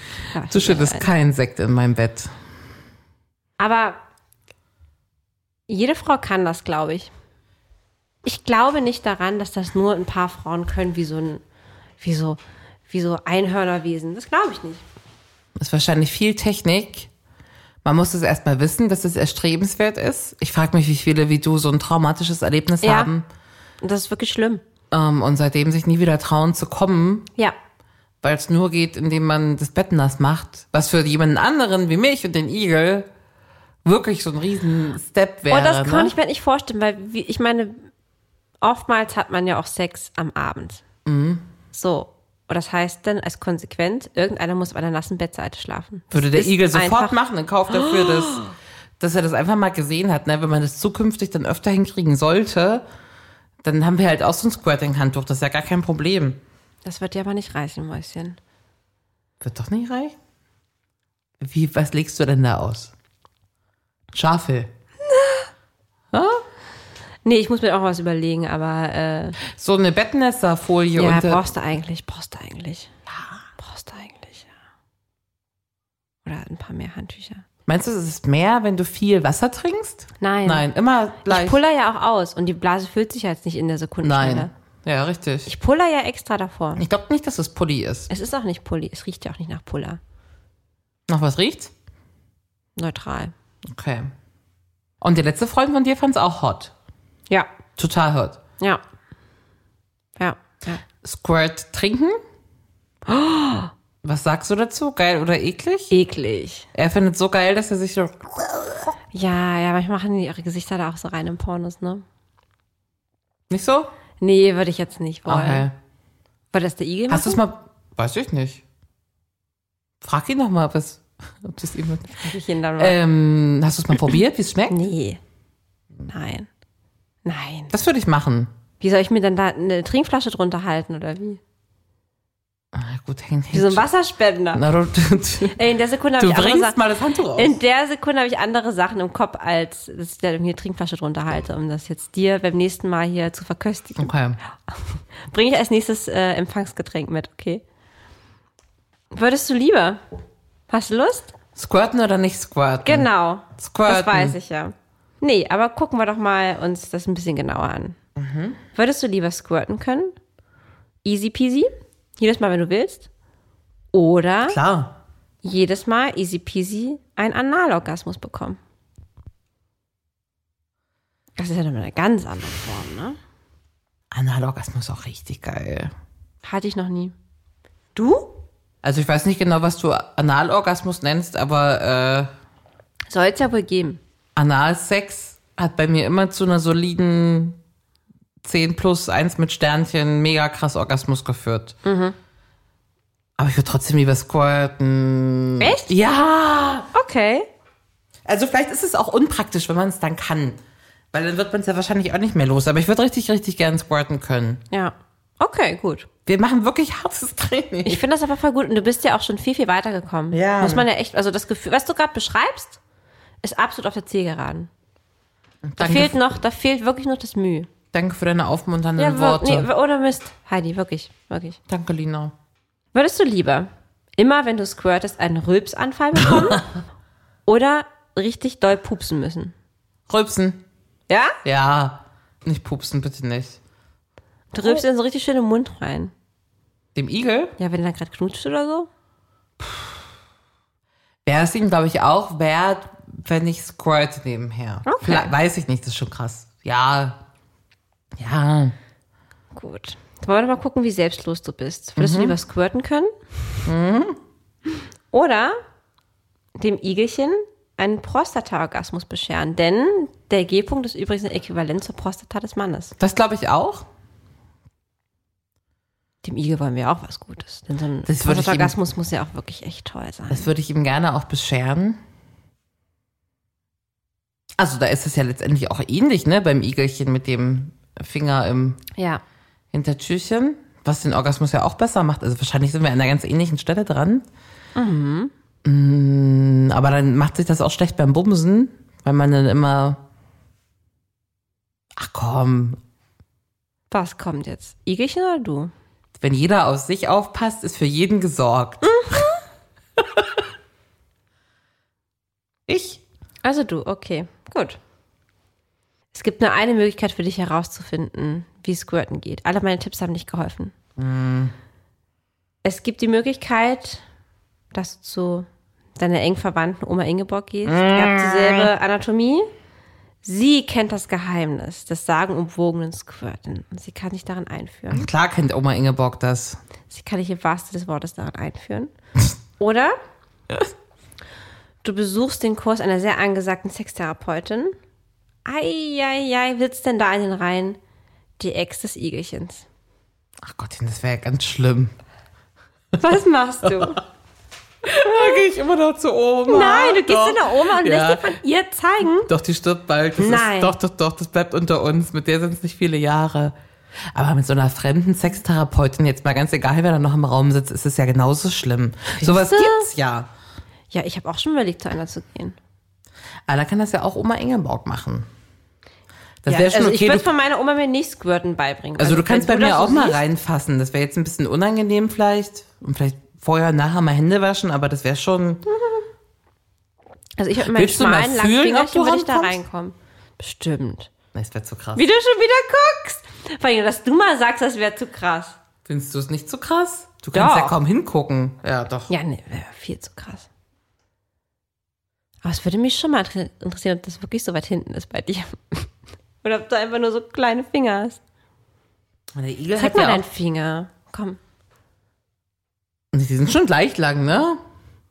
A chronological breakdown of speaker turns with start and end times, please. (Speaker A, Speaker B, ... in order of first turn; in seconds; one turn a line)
Speaker A: 0.3-1.1
Speaker B: 0.5-2.3
Speaker A: 3.6-4.0
Speaker A: 5.7-7.1
Speaker A: 8.2-11.4
Speaker A: 12.0-14.8
Speaker B: 15.6-17.1
Speaker B: 17.8-23.2
Speaker A: 22.8-23.1
Speaker A: 23.8-24.6
Speaker B: 24.9-27.3
Speaker B: 28.2-33.1
Speaker B: 33.8-36.1
Speaker A: 35.5-37.9
Speaker A: 38.6-40.8
Speaker B: 41.0-41.5
Speaker A: 41.7-47.1
Speaker B: 46.1-48.4
Speaker A: 47.7-48.5
Speaker B: 49.0-52.8
Speaker B: 53.6-56.4
Speaker A: 56.8-58.4
Speaker B: 59.4-60.1
Speaker B: 61.4-62.9
Speaker B: 64.1-64.7
Speaker A: 65.1-65.5
Speaker B: 66.1-66.4
Speaker A: 67.2-69.4
Speaker B: 69.4-71.4
Speaker A: 71.0-72.9
Speaker B: 73.1-73.3
Speaker A: 73.6-74.5
Speaker A: 76.2-77.4
Speaker B: 77.7-81.6
Speaker A: 80.2-80.7
Speaker A: 81.2-84.5
Speaker B: 84.0-85.5
Speaker A: 85.5-86.8
Speaker B: 86.8-88.1
Speaker A: 88.1-90.0
Speaker B: 91.1-91.7
Speaker A: 92.8-93.3
Speaker B: 93.7-94.1
Speaker B: 95.0-96.7
Speaker B: 97.8-98.4
Speaker A: 100.2-100.8
Speaker B: 101.0-102.2
Speaker A: 103.1-103.7
Speaker B: 104.0-105.9
Speaker A: 105.9-106.7
Speaker B: 106.7-108.8
Speaker A: 109.1-112.0
Speaker B: 113.5-113.9
Speaker A: 114.2-115.7
Speaker B: 115.2-115.7
Speaker A: 116.5-117.4
Speaker B: 117.1-118.6
Speaker B: 120.0-124.8
Speaker A: 122.1-123.0
Speaker A: 124.7-125.2
Speaker A: 126.1-126.5
Speaker A: 127.2-127.7
Speaker B: 127.7-128.5
Speaker A: 128.8-131.4
Speaker B: 132.7-133.8
Speaker A: 133.5-134.6
Speaker B: 134.5-135.6
Speaker A: 135.5-136.8
Speaker B: 136.2-137.6
Speaker A: 137.3-144.1
Speaker B: 144.0-144.4
Speaker A: 144.7-147.6
Speaker A: 149.1-150.0
Speaker A: 150.7-151.3
Speaker B: 151.6-154.4
Speaker A: 152.8-158.0
Speaker B: 158.2-158.6
Speaker A: 158.7-160.1
Speaker A: 161.0-163.1
Speaker A: 163.9-164.6
Speaker B: 164.5-165.0
Speaker A: 165.4-168.6
Speaker A: 171.4-173.2
Speaker B: 174.1-175.9
Speaker A: 176.4-177.1
Speaker A: 177.9-178.3
Speaker B: 178.8-182.3
Speaker A: 183.1-184.0
Speaker B: 184.3-187.6
Speaker B: 188.4-191.8
Speaker A: 191.8-192.1
Speaker B: 193.4-196.9
Speaker A: 195.6-195.9
Speaker A: 196.9-197.5
Speaker B: 198.2-200.6
Speaker B: 201.1-204.6
Speaker A: 204.7-206.1
Speaker B: 206.2-208.0
Speaker A: 207.8-212.8
Speaker B: 210.3-210.9
Speaker A: 213.4-214.7
Speaker B: 215.6-216.1
Speaker A: 215.8-217.7
Speaker B: 217.9-219.7
Speaker A: 219.0-221.6
Speaker B: 221.7-222.3
Speaker A: 222.9-226.7
Speaker B: 226.3-226.6
Speaker A: 227.4-229.5
Speaker B: 230.1-230.6
Speaker A: 231.1-231.3
Speaker B: 231.4-233.6
Speaker A: 234.5-236.1
Speaker B: 236.9-237.5
Speaker A: 237.6-238.9
Speaker B: 239.6-240.0
Speaker B: 241.2-247.2
Speaker A: 244.8-245.3
Speaker B: 248.2-248.7
Speaker A: 249.5-253.1
Speaker B: 252.0-252.3
Speaker B: 253.7-254.2
Speaker A: 255.1-255.6
Speaker A: 256.6-262.9
Speaker B: 263.0-263.9
Speaker A: 266.2-270.5
Speaker B: 268.1-268.7
Speaker B: 270.3-272.0
Speaker B: 274.6-278.8
Speaker A: 279.0-279.2
Speaker B: 279.7-284.2
Speaker A: 284.8-285.3
Speaker B: 285.6-290.0
Speaker B: 291.9-292.8
Speaker A: 293.9-295.7
Speaker B: 296.2-299.2
Speaker A: 298.9-299.3
Speaker B: 300.0-300.2
Speaker B: 302.7-303.0
Speaker A: 303.4-304.8
Speaker A: 306.1-310.7
Speaker B: 311.0-311.5
Speaker A: 312.6-314.0
Speaker A: 314.7-319.5
Speaker B: 317.6-318.7
Speaker A: 320.2-325.1
Speaker B: 324.9-326.6
Speaker A: 326.9-328.9
Speaker A: 329.6-329.9
Speaker A: 331.8-334.8
Speaker A: 335.4-337.8
Speaker A: 338.4-339.6
Speaker B: 340.4-341.9
Speaker A: 343.0-344.0
Speaker B: 343.6-344.0
Speaker B: 344.8-348.4
Speaker A: 346.5-349.3
Speaker B: 349.2-353.5
Speaker A: 350.2-350.7
Speaker B: 354.1-360.3
Speaker A: 359.2-359.9
Speaker A: 360.9-362.6
Speaker B: 363.5-365.3
Speaker B: 366.4-367.3
Speaker A: 366.5-370.2
Speaker B: 369.0-375.6
Speaker A: 375.7-376.0
Speaker A: 377.4-381.1
Speaker B: 377.6-379.6
Speaker B: 381.3-382.0
Speaker A: 381.9-385.6
Speaker B: 385.8-389.1
Speaker A: 387.3-387.8
Speaker A: 389.1-390.5
Speaker A: 392.4-395.9
Speaker A: 396.4-398.2
Speaker B: 399.3-400.2
Speaker A: 399.8-401.4
Speaker B: 403.1-404.6